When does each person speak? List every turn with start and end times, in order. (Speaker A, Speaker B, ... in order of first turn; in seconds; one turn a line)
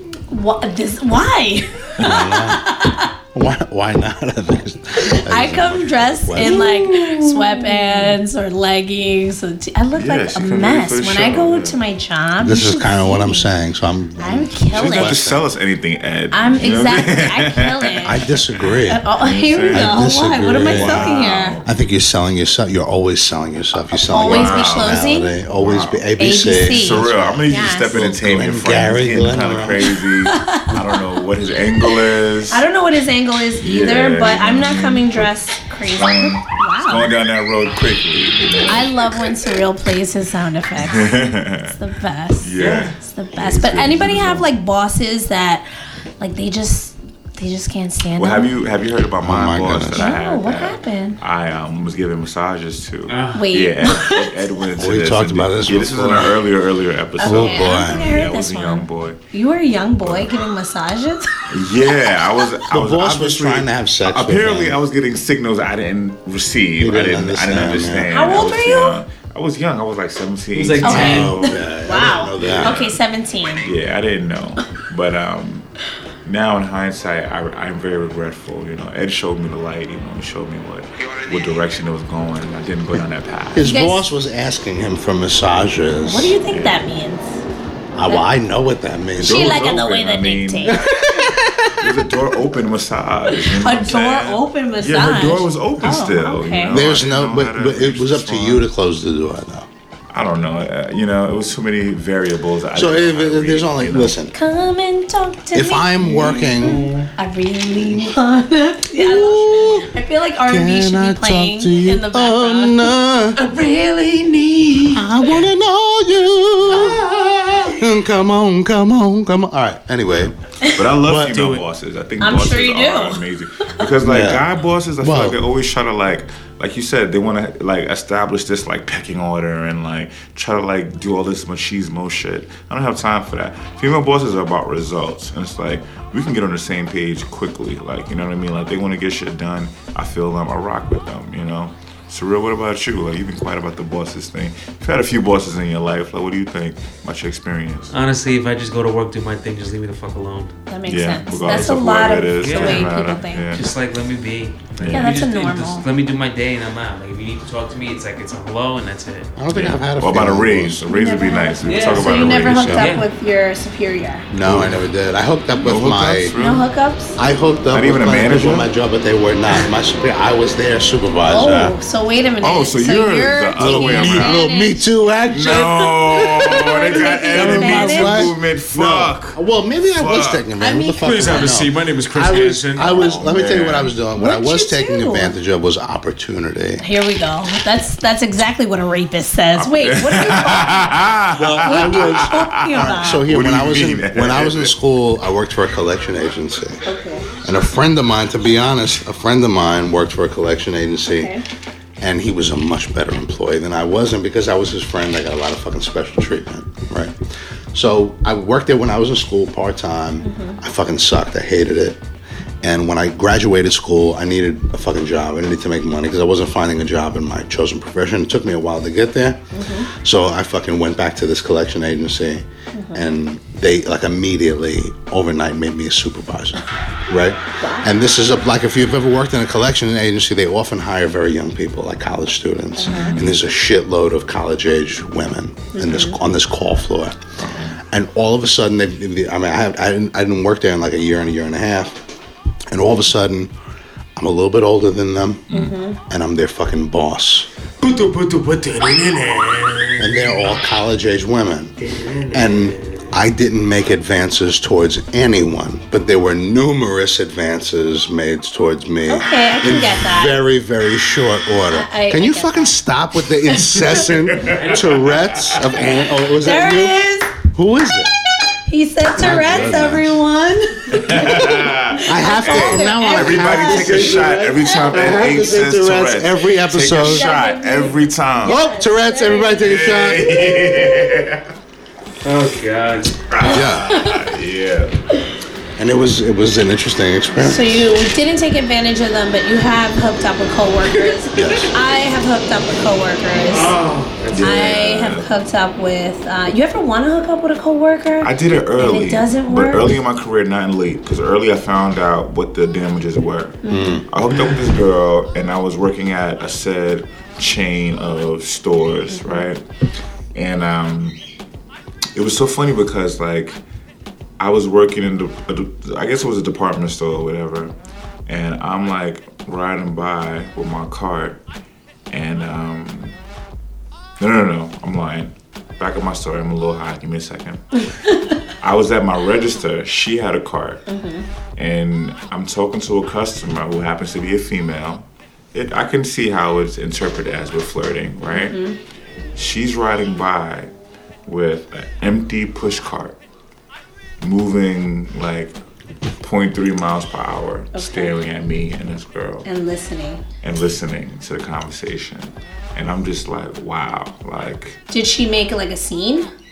Speaker A: 0.3-3.1
Speaker B: 2.0-2.2
Speaker C: 2.0-2.6
Speaker C: 3.3-7.2
Speaker A: 5.0-13.5
Speaker B: 6.4-7.1
Speaker B: 9.9-11.8
Speaker C: 12.4-15.4
Speaker A: 14.2-15.2
Speaker B: 14.7-20.0
Speaker A: 16.3-18.2
Speaker C: 18.1-19.0
Speaker A: 18.9-21.6
Speaker C: 19.7-29.9
Speaker B: 20.6-21.7
Speaker A: 24.1-25.4
Speaker B: 24.2-32.6
Speaker A: 26.2-28.0
Speaker A: 30.2-30.8
Speaker A: 32.5-37.1
Speaker B: 33.6-39.1
Speaker A: 38.7-45.6
Speaker B: 40.8-41.8
Speaker B: 42.4-44.5
Speaker D: 42.6-43.0
Speaker A: 46.2-48.5
Speaker B: 48.2-59.2
Speaker C: 49.2-50.1
Speaker A: 50.0-51.2
Speaker D: 53.1-53.5
Speaker A: 53.3-54.3
Speaker C: 54.8-56.4
Speaker A: 57.2-61.3
Speaker C: 57.2-58.2
Speaker B: 60.0-60.3
Speaker B: 61.5-73.0
Speaker C: 62.7-64.8
Speaker C: 66.8-68.1
Speaker A: 68.1-69.0
Speaker D: 70.5-71.5
Speaker C: 70.8-72.8
Speaker A: 70.8-73.7
Speaker B: 73.6-75.7
Speaker B: 76.2-83.7
Speaker C: 83.5-86.3
Speaker A: 83.6-84.1
Speaker A: 86.0-87.4
Speaker B: 86.5-86.8
Speaker C: 87.9-89.6
Speaker B: 89.2-90.9
Speaker A: 89.2-91.2
Speaker C: 90.9-91.9
Speaker B: 91.8-98.7
Speaker A: 93.3-96.8
Speaker C: 96.7-99.7
Speaker B: 100.1-104.2
Speaker C: 102.8-104.3
Speaker A: 104.3-106.3
Speaker C: 105.5-106.9
Speaker D: 106.0-107.1
Speaker B: 106.7-107.0
Speaker A: 107.2-112.9
Speaker C: 107.8-108.2
Speaker C: 108.9-109.9
Speaker C: 110.5-113.4
Speaker D: 113.4-115.4
Speaker C: 114.9-120.3
Speaker B: 120.7-147.9
Speaker C: 120.9-121.4
Speaker D: 121.2-121.6
Speaker A: 122.2-123.7
Speaker C: 124.0-124.4
Speaker C: 125.0-125.4
Speaker D: 147.9-150.6
Speaker A: 150.7-153.5
Speaker B: 150.9-153.6
Speaker D: 151.4-151.8
Speaker D: 152.4-153.0
Speaker D: 153.5-159.3
Speaker B: 154.8-155.1
Speaker A: 154.9-155.9
Speaker C: 159.4-160.8
Speaker B: 159.5-162.9
Speaker A: 160.9-164.3
Speaker D: 161.6-163.1
Speaker C: 162.5-162.8
Speaker C: 164.3-166.3
Speaker B: 164.4-164.8
Speaker B: 165.6-166.7
Speaker A: 166.4-167.2
Speaker C: 167.2-171.8
Speaker B: 167.7-168.7
Speaker A: 171.2-174.9
Speaker B: 172.4-174.4
Speaker C: 173.6-186.8
Speaker B: 175.3-179.4
Speaker A: 176.8-178.3
Speaker B: 179.9-180.4
Speaker A: 180.6-181.6
Speaker D: 181.0-183.1
Speaker B: 182.8-184.0
Speaker A: 182.9-183.3
Speaker A: 184.2-185.3
Speaker A: 186.8-190.8
Speaker B: 189.6-194.7
Speaker D: 191.4-192.2
Speaker A: 191.6-193.3
Speaker C: 191.7-192.0
Speaker C: 192.7-196.8
Speaker A: 196.8-197.3
Speaker C: 197.4-201.3
Speaker C: 202.0-207.2
Speaker C: 207.7-212.0
Speaker A: 210.2-210.6
Speaker C: 212.6-237.2
Speaker A: 219.5-219.9
Speaker A: 222.7-223.0
Speaker A: 227.6-227.9
Speaker A: 232.8-233.2
Speaker B: 232.9-233.4
Speaker A: 235.7-236.2
Speaker B: 237.4-237.8
Speaker C: 237.9-242.0
Speaker C: 242.7-243.5
Speaker C: 244.2-245.5
Speaker A: 245.5-246.0
Speaker C: 246.1-247.5
Speaker D: 247.8-250.5
Speaker C: 250.0-251.8
Speaker D: 251.8-253.1
Speaker C: 252.3-267.0
Speaker A: 259.1-260.4
Speaker A: 261.7-262.7
Speaker A: 263.5-264.1
Speaker B: 264.3-264.8
Speaker D: 264.5-265.0
Speaker A: 265.8-267.3
Speaker C: 267.5-268.1
Speaker A: 268.7-274.9
Speaker C: 269.1-270.2
Speaker B: 270.9-278.6
Speaker C: 272.0-277.3
Speaker A: 277.0-279.9
Speaker C: 278.4-281.0
Speaker B: 279.6-281.5
Speaker D: 282.2-283.2
Speaker B: 283.3-285.0
Speaker A: 283.4-284.3
Speaker C: 283.4-284.0
Speaker C: 285.8-288.1
Speaker A: 287.4-293.8
Speaker C: 291.3-291.7
Speaker D: 293.3-294.6
Speaker B: 294.3-295.3
Speaker A: 294.4-300.0
Speaker B: 298.2-309.6
Speaker A: 303.6-304.0
Speaker C: 303.7-304.1
Speaker D: 304.3-304.8
Speaker A: 309.1-309.4
Speaker B: 310.3-311.2
Speaker B: 312.1-313.6
Speaker B: 314.4-317.7
Speaker B: 318.3-321.4
Speaker B: 322.1-323.1
Speaker B: 324.2-327.8
Speaker B: 328.6-330.9
Speaker A: 330.9-331.3
Speaker B: 331.6-338.6
Speaker A: 338.3-338.8
Speaker B: 339.4-340.7
Speaker B: 341.3-343.2
Speaker B: 344.2-345.6
Speaker B: 346.2-349.5
Speaker A: 347.7-348.2
Speaker A: 349.4-350.2
Speaker B: 350.4-354.8
Speaker A: 354.9-356.3